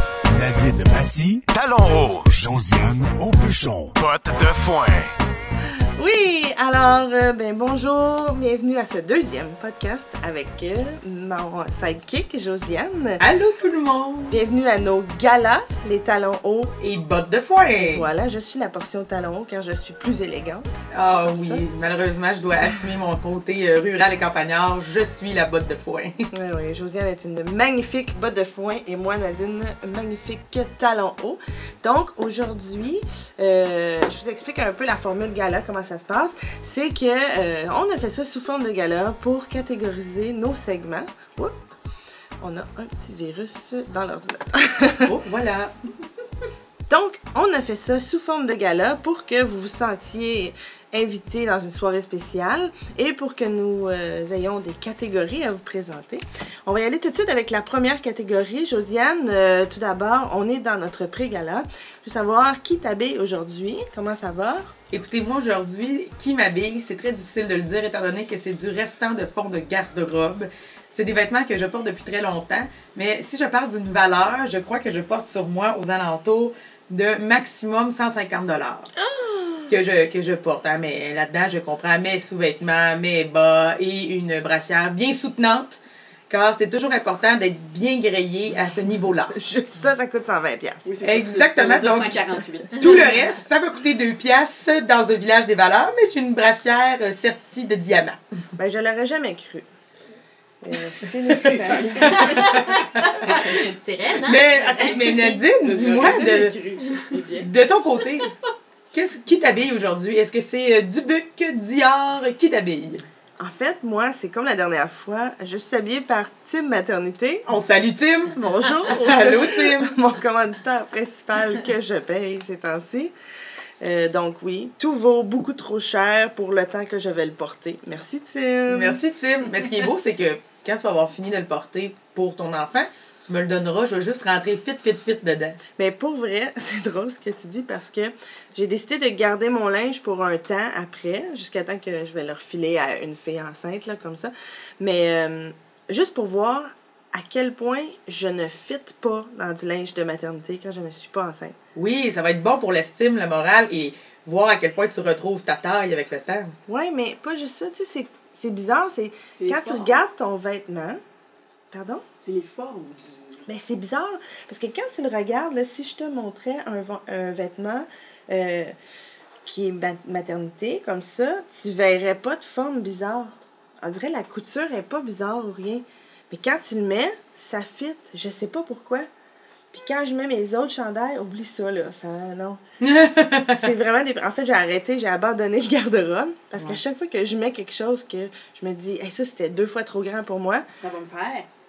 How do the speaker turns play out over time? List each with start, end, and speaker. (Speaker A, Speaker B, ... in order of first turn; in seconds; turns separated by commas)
Speaker A: 0.3-5.1, Speaker B: 6.0-13.2, Speaker C: 13.2-14.4, Speaker B: 14.3-16.7, Speaker C: 16.8-18.1, Speaker B: 17.8-20.7, Speaker C: 20.9-26.1, Speaker B: 21.2-21.6, Speaker B: 26.3-41.5, Speaker B: 42.4-45.1, Speaker C: 45.0-45.7, Speaker B: 46.9-64.7, Speaker C: 64.9-78.9, Speaker B: 79.2-79.6, Speaker C: 79.7-89.4, Speaker B: 89.3-90.9, Speaker D: 90.8-93.2, Speaker C: 91.0-98.2, Speaker B: 98.6-99.6, Speaker B: 100.6-102.7, Speaker C: 101.2-103.4, Speaker D: 101.4-102.4, Speaker E: 102.1-105.4, Speaker D: 103.3-103.7, Speaker C: 104.2-106.5, Speaker D: 105.6-107.5, Speaker C: 107.4-108.3, Speaker C: 108.9-113.0, Speaker B: 113.4-117.5, Speaker C: 117.5-119.9, Speaker B: 118.3-123.1, Speaker B: 123.8-129.0, Speaker C: 128.7-135.6, Speaker B: 135.8-151.6, Speaker C: 151.7-156.5, Speaker B: 156.7-161.0, Speaker D: 159.3-160.0, Speaker B: 161.7-162.0, Speaker D: 162.2-163.4, Speaker B: 163.4-168.7, Speaker B: 169.4-179.1, Speaker B: 179.7-182.6, Speaker C: 182.8-183.7, Speaker B: 183.5-190.6, Speaker D: 190.8-191.5